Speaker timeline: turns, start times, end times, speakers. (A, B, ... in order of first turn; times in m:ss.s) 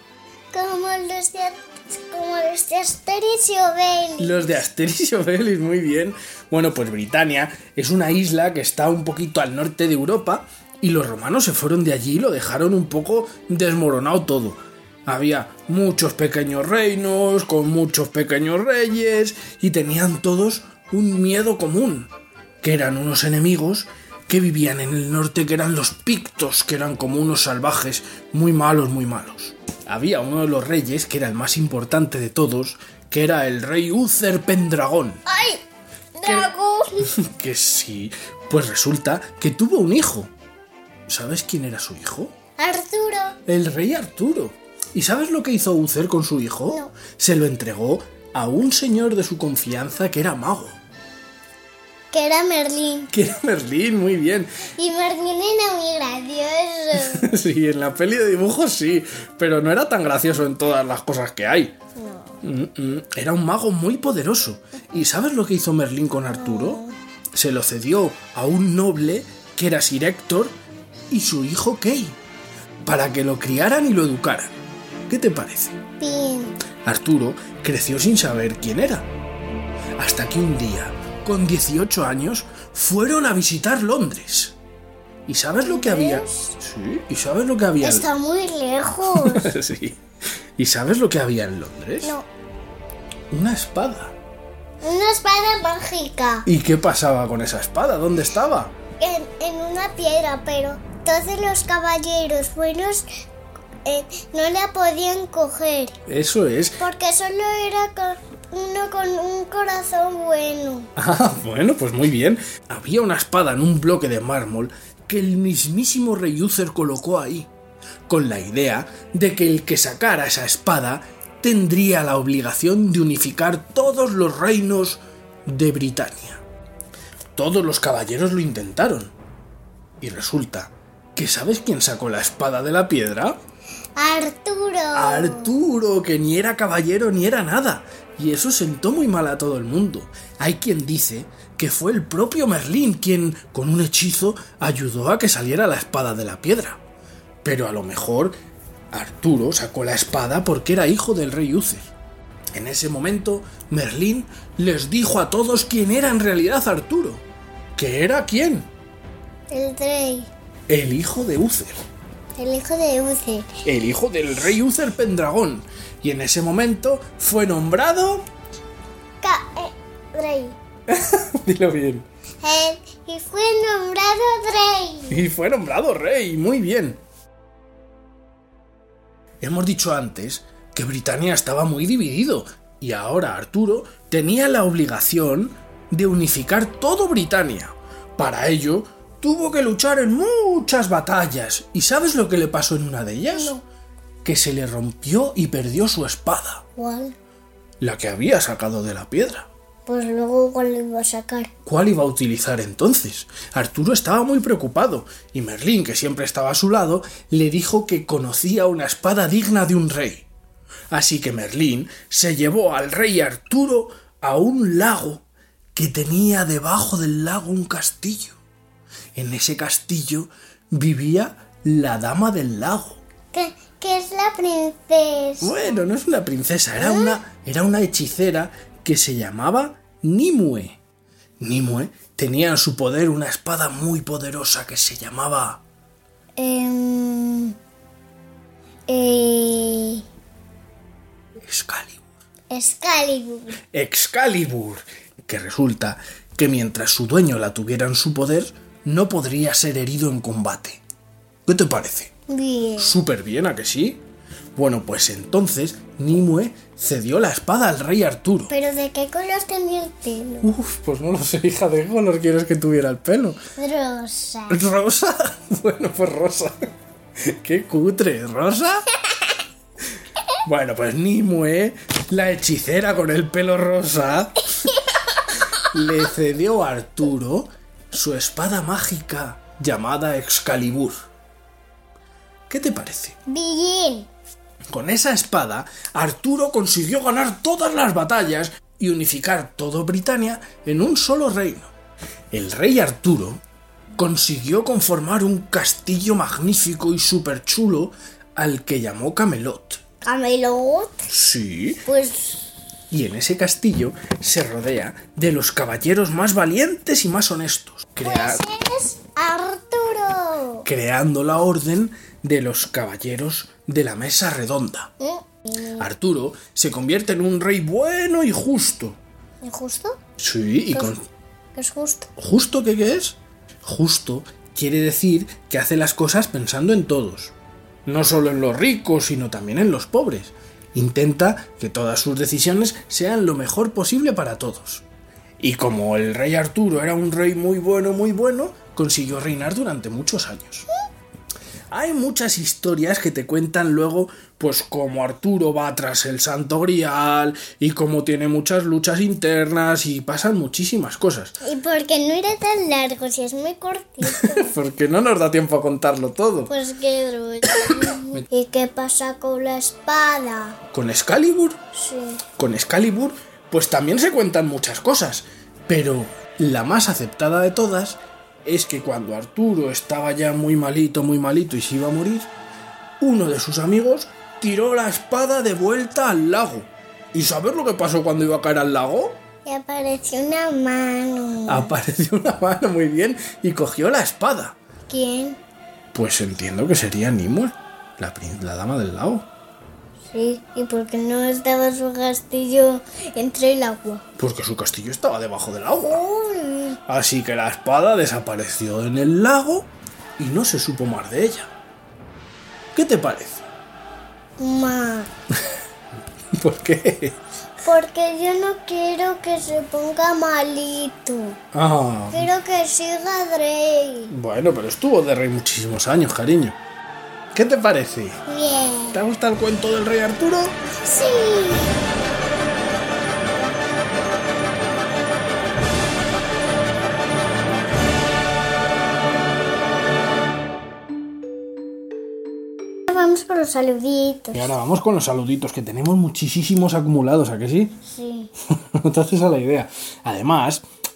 0:00.5-0:04.6 A
0:04.2-0:22.1 B
0:22.6-0:35.2 B
0:35.3-0:35.6 A
0:36.2-0:37.1 A
0:36.2-0:36.5 B
0:37.0-0:40.3 B
0:41.1-0:42.3 B
0:42.6-0:43.4 A
0:43.5-0:50.8 B
0:46.7-0:47.0 A
0:52.1-0:53.1 A
0:53.1-0:54.6 B
0:54.8-0:57.3 A
0:56.9-1:01.7 B
1:02.0-1:02.4 A
1:02.4-1:06.8 B
1:06.3-1:07.0 A
1:07.4-1:10.5 B
1:11.1-1:12.2 B
1:12.8-1:14.5 B
1:15.1-1:15.8 B
1:16.0-1:16.6 A
1:16.8-1:19.1 B
1:20.0-1:24.6 B
1:25.3-1:28.1 B
1:25.6-1:26.5 A
1:27.8-1:29.5 A
1:29.1-1:30.0 B
1:30.6-1:32.1 B
1:33.3-1:34.2 B
1:34.8-1:36.5 A
1:36.5-1:38.8 B
1:39.0-1:43.1 A
1:43.8-1:46.0 A
1:46.1-1:46.8 B
1:46.8-1:50.9 A
1:51.0-1:57.5 B
1:58.1-2:06.4 B
2:07.4-2:09.1 B
2:10.0-2:13.4 B
2:14.0-2:15.5 A
2:15.0-2:26.8 B
2:27.4-2:28.4 B
2:28.9-2:31.9 B
2:32.5-2:37.2 B
2:37.8-2:38.7 B
2:39.5-2:40.3 A
2:40.7-2:41.8 B
2:42.4-2:43.5 A
2:43.6-2:48.3 B
2:49.2-2:50.6 A
2:50.9-2:52.1 B
2:52.4-2:55.2 A
2:55.1-2:57.0 B
2:59.4-3:13.6 B
3:13.3-3:13.6 A
3:14.2-3:16.6 B
3:16.8-3:17.2 A
3:17.8-3:19.5 B
3:19.9-3:21.5 A
3:21.7-3:30.3 B
3:30.9-3:38.4 B
3:39.2-3:43.0 B
3:43.3-3:45.5 A
3:45.4-3:50.8 B
3:46.8-3:47.2 A
3:51.4-3:55.6 B
3:56.4-3:57.6 A
3:58.9-4:00.0 A
4:01.4-4:02.0 B
4:02.5-4:03.6 A
4:03.7-4:10.8 B
4:11.5-4:12.1 B
4:12.3-4:13.0 A
4:12.8-4:14.0 B
4:14.6-4:18.5 B
4:18.5-4:20.5 A
4:20.4-4:23.4 B
4:23.6-4:24.6 A
4:24.5-4:26.7 B
4:27.2-4:28.9 B
4:30.4-4:34.5 B
4:35.6-4:41.0 B
4:42.5-4:43.2 B
4:43.3-4:44.1 A
4:44.7-4:51.7 B
4:52.3-4:53.4 B
4:54.0-4:59.8 B
5:00.0-5:01.1 A
5:01.1-5:01.8 B
5:01.8-5:02.5 A
5:02.9-5:08.4 B
5:08.0-5:10.7 A
5:10.7-5:14.9 B
5:15.0-5:15.9 A
5:15.8-5:19.0 B
5:19.4-5:20.0 A
5:20.2-5:21.0 B
5:21.6-5:22.1 A
5:22.2-5:27.3 B
5:27.9-5:34.8 B
5:35.4-5:40.7 B
5:41.7-5:51.4 B
5:51.4-5:54.6 A
5:54.0-5:56.5 B
5:56.5-6:00.6 A
5:57.7-5:58.2 B
6:00.7-6:01.6 B
6:01.7-6:02.2 A
6:02.3-6:12.3 B
6:13.0-6:19.2 B
6:19.4-6:21.7 A
6:21.5-6:24.6 B
6:24.9-6:25.4 A
6:25.9-6:29.3 B
6:30.1-6:34.0 A
6:34.2-6:36.0 B
6:35.8-6:36.8 A
6:36.9-6:41.5 B
6:42.7-6:43.4 B
6:44.4-6:45.1 A
6:46.4-6:47.2 B
6:47.6-6:51.4 A
6:51.5-6:52.3 B
6:52.1-6:54.1 A
6:54.1-6:56.6 B
6:57.3-6:58.2 B
6:58.3-6:59.0 A
6:58.9-7:00.6 B
7:00.8-7:01.8 A
7:12.9-7:14.5 A
7:14.3-7:17.8 B
7:17.9-7:18.3 A
7:18.6-7:20.6 B